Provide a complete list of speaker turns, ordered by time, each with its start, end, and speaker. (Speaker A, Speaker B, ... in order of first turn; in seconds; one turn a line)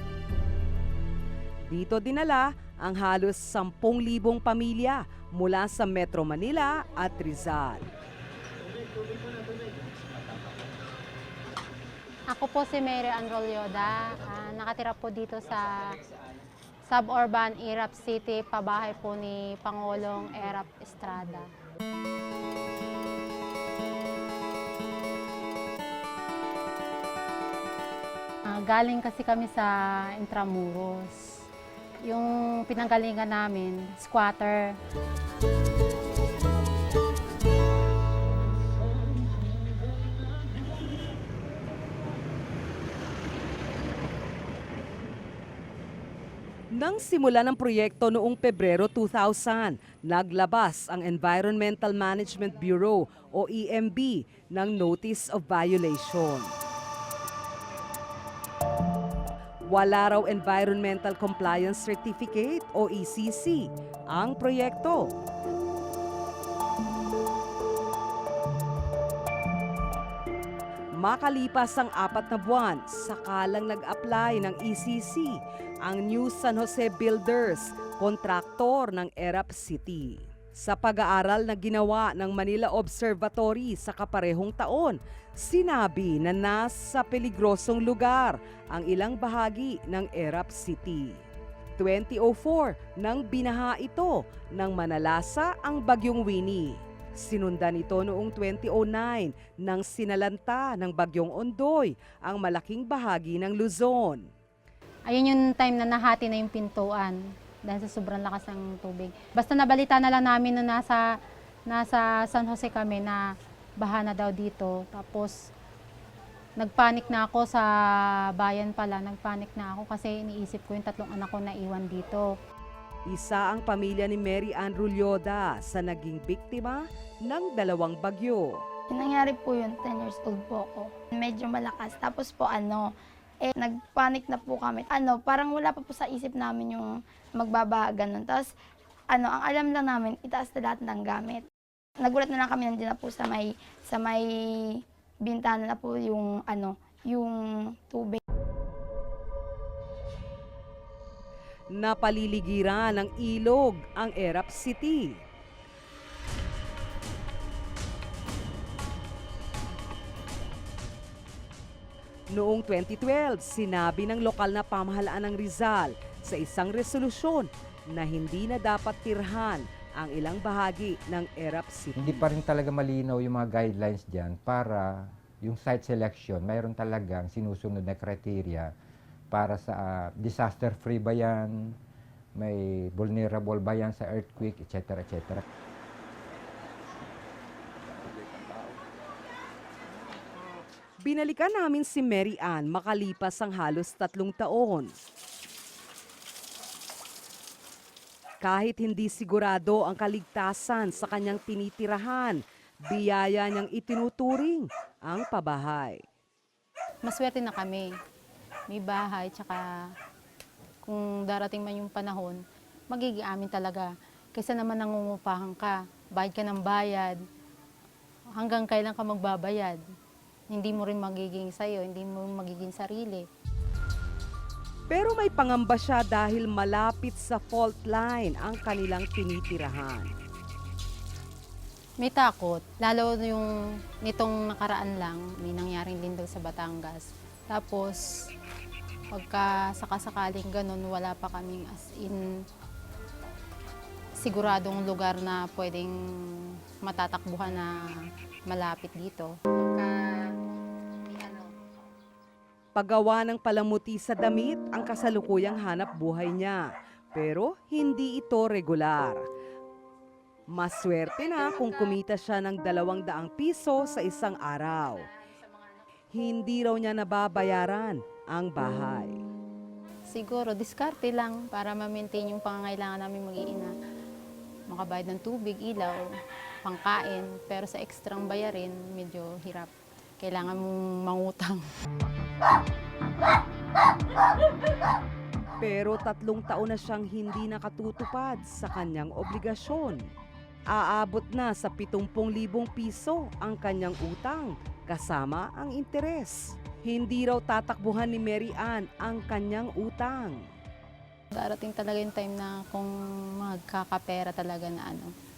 Speaker A: 1.7-7.9
Speaker B: 12.3-16.0
Speaker B: 16.9-21.5
Speaker B: 28.5-31.4
Speaker B: 32.0-34.8
Speaker A: 46.7-56.5
Speaker A: 59.7-65.2
Speaker A: 70.9-91.2
Speaker A: 91.8-104.2
Speaker B: 105.1-111.1
Speaker B: 111.7-113.2
Speaker B: 113.8-115.3
Speaker B: 116.6-117.7
Speaker B: 118.4-122.2
Speaker A: 123.1-128.6
Speaker C: 128.9-132.9
Speaker C: 133.4-138.5
Speaker C: 139.1-141.5
Speaker C: 142.0-148.2
Speaker A: 151.7-155.2
Speaker A: 162.3-172.3
Speaker D: 172.0-178.7
Speaker D: 179.3-181.8
Speaker D: 182.4-185.4
Speaker A: 191.0-194.9
Speaker A: 198.4-206.0
Speaker B: 207.0-207.9
Speaker B: 208.7-209.7
Speaker B: 210.8-212.4
Speaker B: 212.9-217.2
Speaker B: 218.4-219.8
Speaker B: 220.5-223.2
Speaker A: 224.9-230.1
Speaker B: 232.0-233.5
Speaker B: 234.0-238.1
Speaker B: 239.1-242.3
Speaker B: 244.2-247.8
Speaker B: 248.5-250.3
Speaker B: 251.1-251.5
Speaker A: 252.8-259.2
Speaker A: 260.5-265.1
Speaker B: 265.2-265.8
Speaker A: 266.1-269.2
Speaker B: 270.1-273.7
Speaker B: 274.7-276.0
Speaker B: 276.6-281.6
Speaker A: 285.6-290.0
Speaker A: 290.7-300.4
Speaker B: 301.3-305.1